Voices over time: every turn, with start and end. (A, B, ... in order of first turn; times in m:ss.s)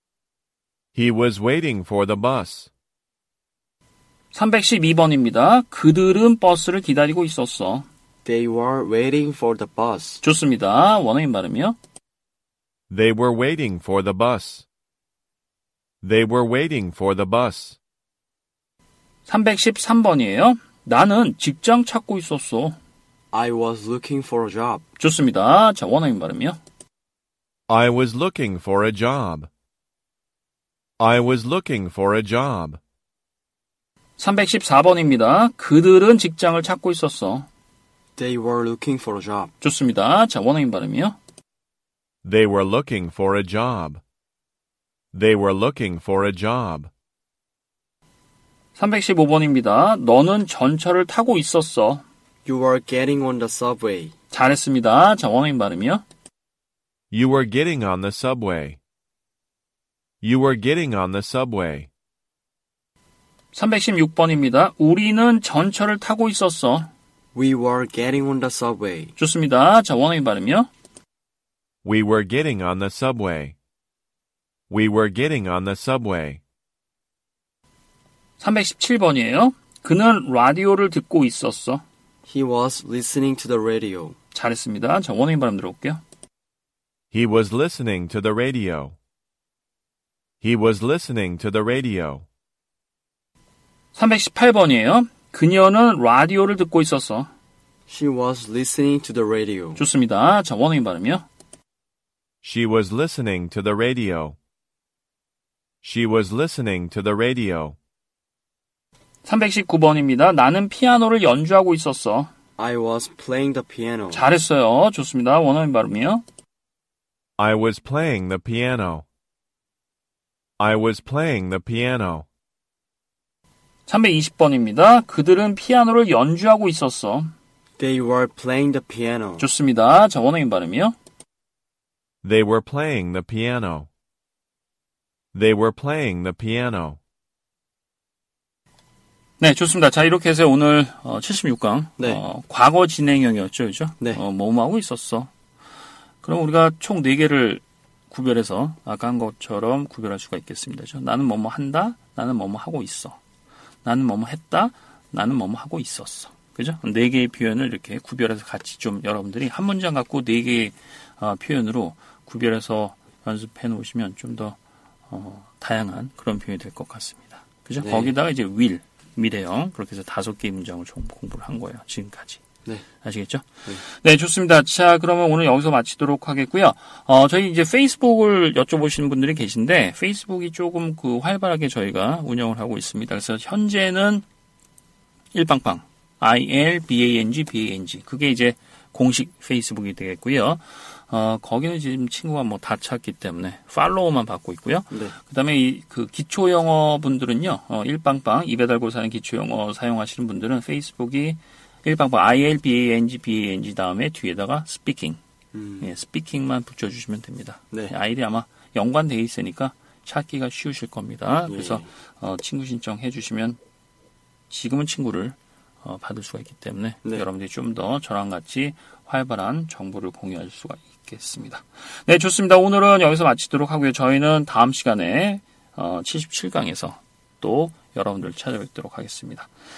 0:00.9-0:02.7 A
0:04.3-0:07.8 B
0:08.2-0:10.2 C
0:10.2-0:11.8 B
0:12.9-0:14.6 A
0:16.0-0:17.8 A
0:19.3-0:22.8 B
0:23.3-0:24.8 C
0:25.0-0:26.6 B
0:27.7-0:29.5 A
0:31.0-0:32.8 A
0:34.2-0:37.5 B
0:38.2-0:39.5 C
0:39.6-0:41.2 B
0:42.2-0:44.0 A
0:45.1-0:46.9 A
0:48.8-0:52.0 B
0:52.4-0:54.1 C
0:54.3-0:56.0 B
0:57.1-0:58.8 A
1:00.2-1:01.9 A
1:03.5-1:06.9 B
1:07.3-1:09.1 C
1:09.2-1:10.7 B
1:11.8-1:13.6 A
1:14.7-1:16.4 A
1:18.4-1:21.8 B
1:22.2-1:24.2 C
1:24.3-1:26.0 B
1:27.1-1:29.0 A
1:30.4-1:32.2 A
1:33.9-1:37.3 B
1:37.9-1:39.8 C
1:39.8-1:41.2 B
1:42.4-1:44.4 A
1:45.8-1:47.8 A
1:49.2-1:52.3 B
1:52.6-1:54.3 C
1:54.1-1:56.2 B
1:57.4-1:59.0 A
2:00.6-2:02.2 A
2:03.9-2:07.3 B
2:07.8-2:09.5 C
2:09.4-2:10.9 B
2:12.2-2:13.9 A
2:15.3-2:17.0 A
2:19.4-2:25.3 B
2:26.2-2:33.2 B
2:33.8-2:44.6 B
2:45.1-2:52.4 B
2:47.8-2:48.1 C
2:53.0-3:04.2 B
3:05.3-3:25.2 B
3:25.5-3:25.9 C
3:25.8-3:33.6 B
3:31.5-3:31.9 C
3:34.5-3:49.5 B